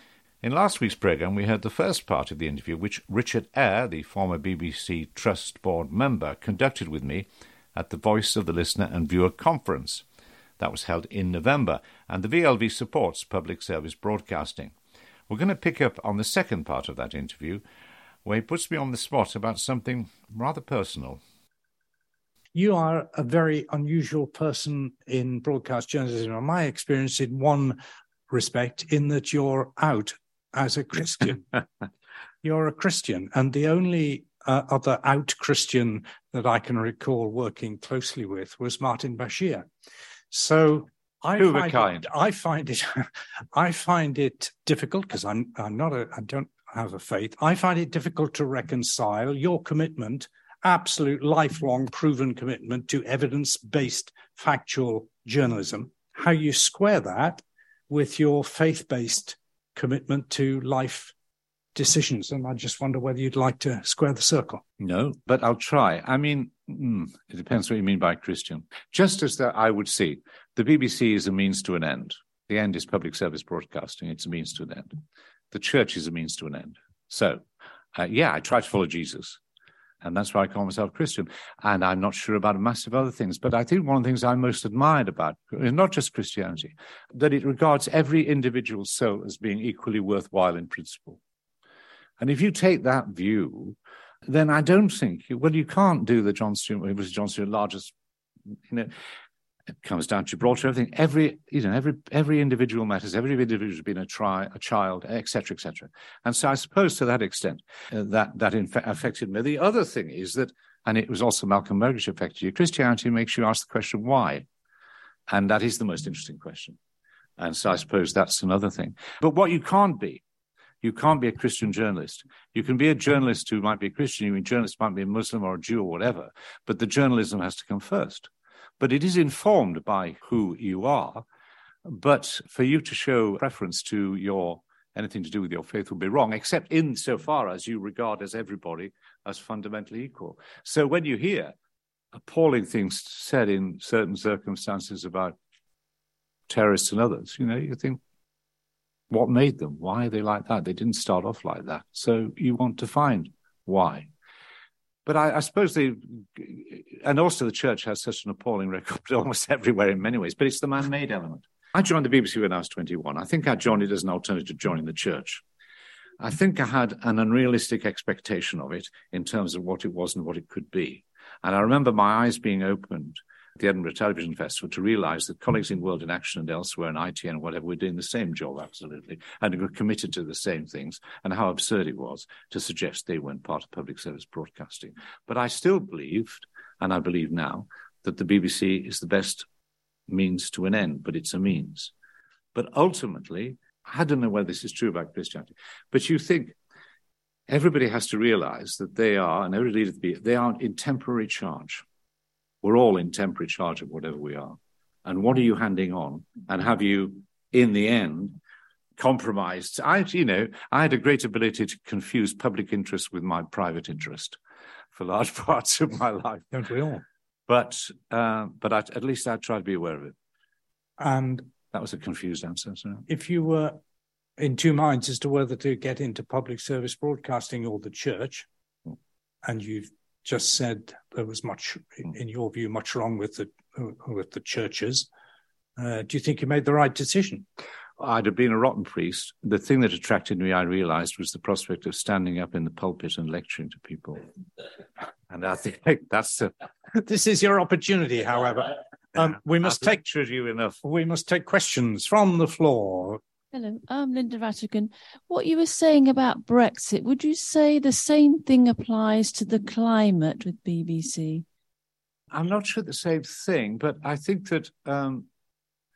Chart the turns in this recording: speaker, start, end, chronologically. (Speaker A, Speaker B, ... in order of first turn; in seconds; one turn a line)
Speaker A: 0.4-10.0
Speaker A: 10.6-14.7
Speaker A: 15.3-17.6
Speaker A: 18.2-21.2
Speaker B: 22.5-27.8
Speaker B: 28.3-31.5
Speaker B: 32.4-39.6
Speaker B: 40.3-61.1
Speaker A: 41.4-42.0
Speaker B: 61.7-64.6
Speaker A: 64.8-74.9
Speaker A: 75.5-77.4
Speaker A: 77.9-79.4
Speaker A: 80.0-91.2
Speaker A: 92.2-97.9
Speaker A: 99.8-114.4
Speaker A: 115.3-116.8
Speaker A: 117.4-120.2
Speaker A: 120.8-131.2
Speaker A: 131.8-141.5
Speaker A: 142.1-145.4
Speaker A: 146.5-148.0
Speaker A: 149.1-154.1
Speaker A: 155.1-165.4
Speaker A: 166.2-189.4
Speaker A: 190.1-191.9
Speaker A: 192.5-196.5
Speaker A: 197.5-201.8
Speaker A: 202.6-208.4
Speaker A: 209.0-214.4
Speaker A: 214.9-216.5
Speaker B: 216.5-217.0
Speaker A: 217.5-220.1
Speaker B: 221.0-221.5
Speaker A: 221.7-223.0
Speaker B: 223.1-223.8
Speaker B: 224.4-228.4
Speaker B: 229.4-235.1
Speaker B: 235.8-237.4
Speaker A: 238.0-244.2
Speaker A: 245.3-246.5
Speaker B: 246.9-250.0
Speaker A: 249.2-250.8
Speaker B: 250.8-253.2
Speaker C: 253.5-261.4
Speaker A: 262.3-265.2